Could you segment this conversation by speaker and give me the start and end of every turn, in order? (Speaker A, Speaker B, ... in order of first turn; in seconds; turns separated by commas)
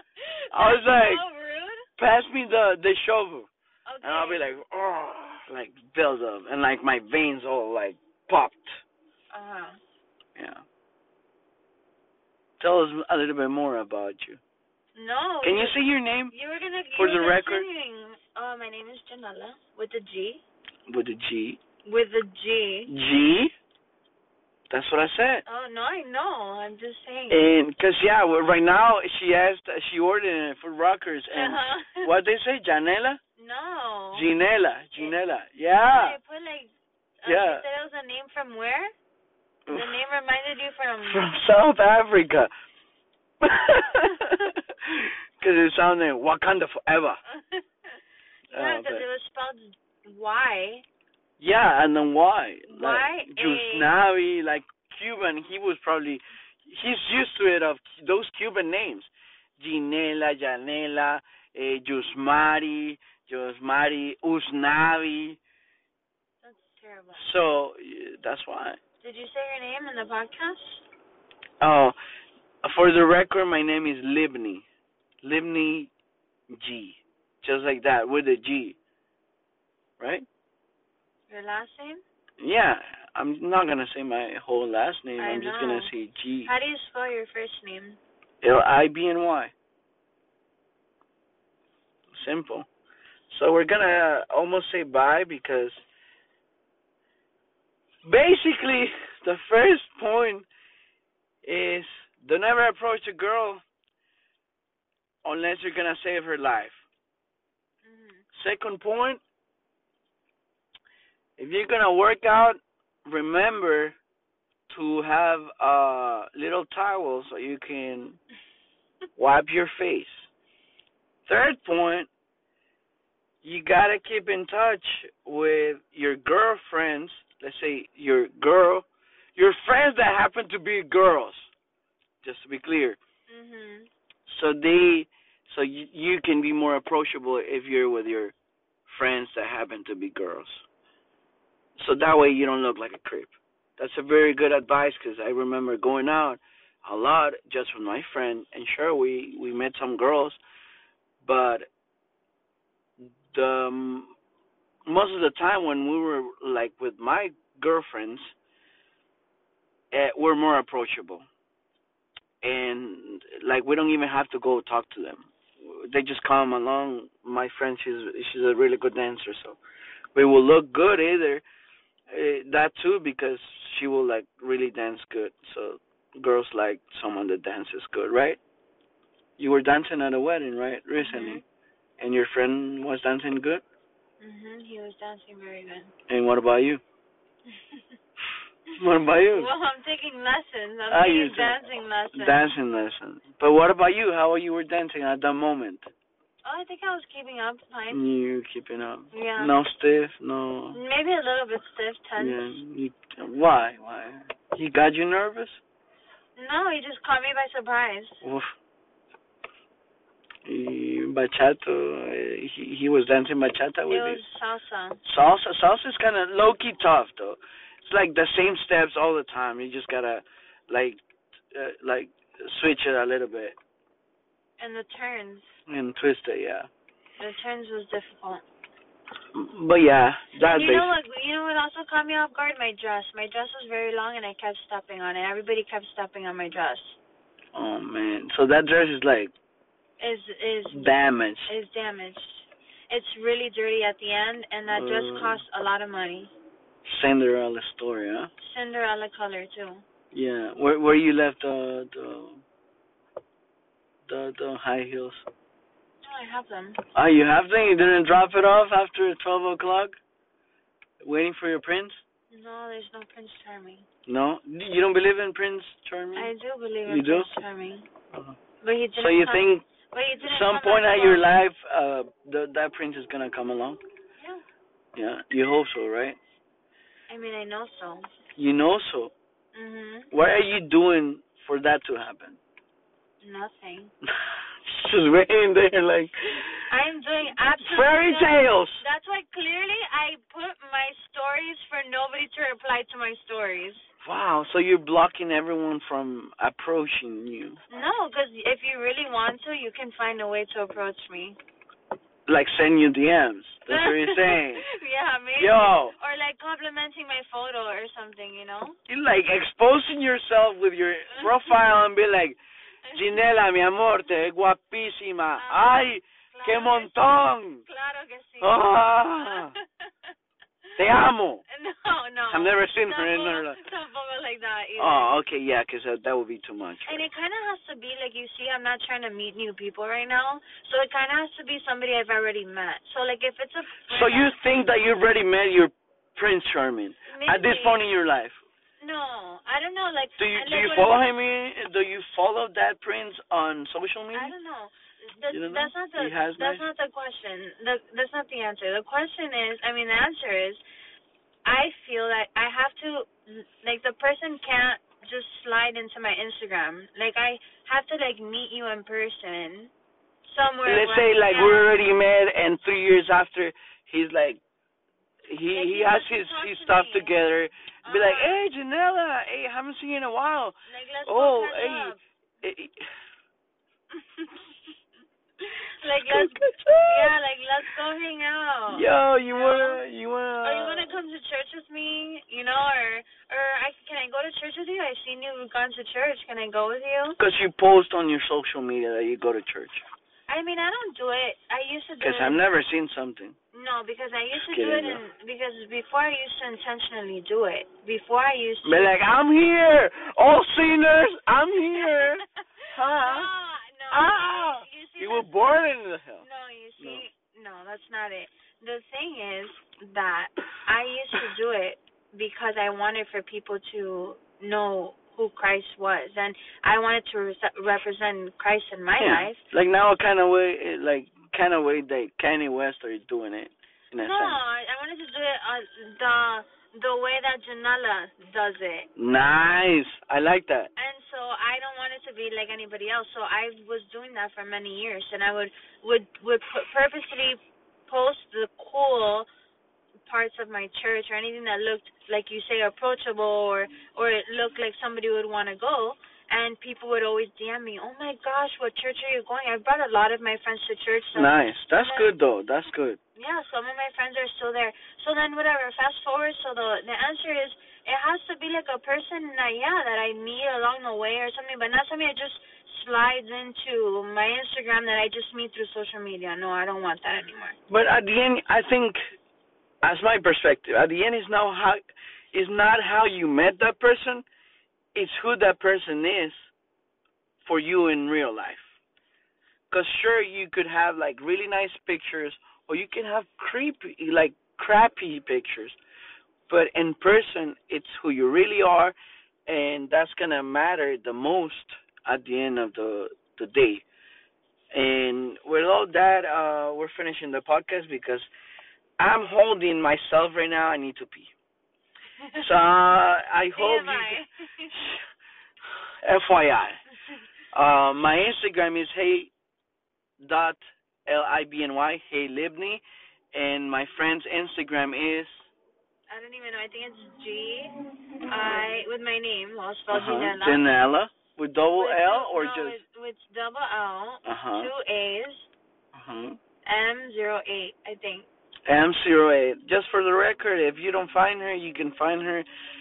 Speaker A: 0.2-1.9, Speaker B: 0.5-1.2, Speaker B: 2.0-3.5, Speaker A: 3.9-4.4, Speaker B: 4.0-8.8, Speaker A: 9.3-9.8, Speaker B: 10.3-10.6, Speaker B: 12.6-14.4, Speaker A: 14.9-20.4, Speaker B: 15.4-16.3, Speaker B: 16.9-17.7, Speaker B: 20.9-21.6, Speaker A: 21.8-22.9, Speaker B: 22.9-23.5, Speaker B: 24.7-25.4, Speaker A: 25.4-27.4, Speaker B: 27.3-33.2, Speaker A: 31.3-32.1, Speaker A: 33.4-34.3, Speaker B: 34.1-36.2, Speaker A: 35.8-38.9, Speaker B: 37.2-37.6, Speaker A: 39.7-41.2, Speaker B: 41.0-42.5, Speaker B: 43.4-47.2, Speaker A: 44.0-44.5, Speaker A: 47.3-48.0, Speaker A: 48.5-50.8, Speaker B: 48.5-49.0, Speaker B: 51.4-65.4, Speaker A: 52.7-53.9, Speaker A: 66.4-67.2, Speaker B: 67.2-68.8, Speaker A: 69.0-70.8, Speaker B: 71.6-71.9, Speaker B: 72.6-74.6, Speaker B: 75.2-75.9, Speaker B: 76.5-78.8, Speaker B: 80.0-80.2, Speaker A: 81.3-82.0, Speaker B: 82.4-86.5, Speaker A: 85.2-85.9, Speaker A: 86.4-88.0, Speaker B: 88.4-89.5, Speaker B: 92.1-92.7, Speaker B: 93.3-95.8, Speaker B: 98.0-100.5, Speaker B: 101.4-103.6, Speaker B: 105.2-106.8, Speaker A: 107.8-108.2, Speaker B: 108.3-109.2, Speaker B: 111.4-114.0, Speaker B: 114.7-118.2, Speaker B: 119.2-120.3, Speaker B: 121.3-122.1, Speaker B: 123.4-131.5, Speaker B: 132.2-133.0, Speaker A: 133.3-133.9, Speaker B: 134.3-138.3, Speaker B: 138.9-140.6, Speaker B: 141.8-150.4, Speaker B: 151.2-151.7, Speaker B: 153.0-154.1, Speaker B: 154.8-158.3, Speaker B: 159.9-161.2, Speaker B: 162.4-169.6, Speaker B: 170.1-171.4, Speaker B: 172.1-178.4, Speaker B: 179.4-181.4, Speaker A: 181.0-181.4, Speaker B: 182.0-183.6, Speaker A: 184.2-185.9, Speaker B: 186.1-186.8, Speaker A: 187.5-187.9, Speaker B: 188.8-189.5, Speaker A: 189.3-192.4, Speaker B: 190.9-195.9, Speaker A: 196.4-198.0, Speaker B: 197.9-200.8, Speaker A: 199.1-199.5, Speaker A: 200.7-202.6, Speaker B: 202.2-205.6, Speaker A: 206.3-208.2, Speaker B: 208.2-208.5, Speaker B: 210.4-214.2, Speaker A: 213.9-215.0, Speaker B: 215.0-221.0, Speaker B: 221.5-223.6, Speaker A: 224.6-225.5, Speaker B: 225.7-226.7, Speaker A: 227.2-228.4, Speaker B: 229.3-230.9, Speaker A: 230.5-237.0, Speaker B: 237.5-239.3, Speaker A: 240.0-240.9, Speaker B: 240.7-241.5, Speaker A: 241.5-246.3, Speaker B: 244.7-245.4, Speaker B: 246.8-248.3, Speaker A: 248.4-249.8, Speaker B: 250.1-252.4, Speaker B: 254.1-255.2, Speaker A: 256.0-256.8, Speaker B: 256.9-260.0, Speaker B: 261.0-262.0, Speaker A: 262.3-263.9, Speaker B: 264.1-266.3, Speaker A: 266.1-267.9, Speaker B: 266.9-267.3, Speaker A: 268.6-271.3, Speaker B: 269.0-269.6, Speaker B: 270.2-273.8, Speaker A: 274.2-274.4, Speaker B: 274.9-276.2, Speaker A: 277.1-278.1, Speaker B: 278.4-279.1, Speaker A: 279.5-280.1, Speaker B: 280.1-282.4, Speaker A: 283.2-283.9, Speaker B: 284.1-286.6, Speaker A: 286.6-293.9, Speaker B: 287.6-288.8, Speaker B: 294.0-297.6, Speaker A: 297.7-301.4, Speaker B: 302.3-304.6, Speaker A: 303.7-308.8, Speaker B: 305.4-305.9, Speaker B: 308.9-312.4, Speaker A: 311.1-311.5, Speaker A: 312.9-313.2, Speaker B: 312.9-317.6, Speaker A: 315.4-317.0, Speaker A: 317.7-320.1, Speaker B: 318.4-319.6, Speaker B: 320.8-321.4, Speaker A: 321.5-325.1, Speaker B: 322.3-323.6, Speaker B: 324.8-327.1, Speaker A: 326.9-334.3, Speaker B: 333.9-338.4, Speaker A: 337.1-337.8, Speaker A: 338.8-341.1, Speaker B: 340.2-344.3, Speaker A: 344.1-350.6, Speaker B: 345.3-346.6, Speaker A: 351.4-359.7, Speaker A: 360.2-361.7, Speaker B: 360.6-364.4, Speaker B: 365.3-372.8, Speaker A: 365.5-367.1, Speaker A: 367.8-368.4, Speaker A: 370.7-372.0, Speaker A: 373.9-374.7, Speaker A: 375.4-379.8, Speaker B: 376.0-377.1, Speaker B: 378.7-380.9, Speaker A: 380.4-387.2, Speaker B: 387.2-389.8, Speaker A: 390.3-392.4, Speaker B: 392.0-393.4, Speaker A: 393.5-398.9, Speaker B: 394.4-395.0, Speaker B: 398.6-403.3, Speaker A: 401.7-405.5, Speaker B: 403.9-406.2, Speaker A: 406.2-419.4, Speaker B: 406.8-407.0, Speaker B: 419.0-424.4, Speaker A: 424.0-428.9, Speaker B: 428.9-430.7, Speaker A: 430.8-439.3, Speaker A: 440.1-452.1, Speaker B: 451.1-453.0, Speaker A: 453.1-467.6, Speaker B: 467.7-469.0, Speaker B: 469.8-471.8, Speaker B: 472.3-474.2, Speaker B: 474.9-476.5, Speaker B: 477.4-478.6, Speaker B: 479.7-485.8, Speaker B: 486.5-488.9, Speaker B: 489.5-493.8, Speaker B: 494.7-498.3, Speaker B: 499.0-501.3, Speaker A: 502.2-502.4, Speaker B: 502.4-505.0, Speaker A: 503.5-504.7, Speaker B: 506.0-506.8, Speaker B: 507.5-509.3, Speaker B: 510.2-512.8, Speaker B: 513.3-515.5, Speaker A: 516.1-517.7, Speaker A: 518.2-520.6, Speaker B: 519.9-522.8, Speaker A: 521.7-525.5, Speaker B: 524.2-524.7, Speaker B: 525.9-526.4, Speaker A: 526.6-528.3, Speaker B: 528.7-532.5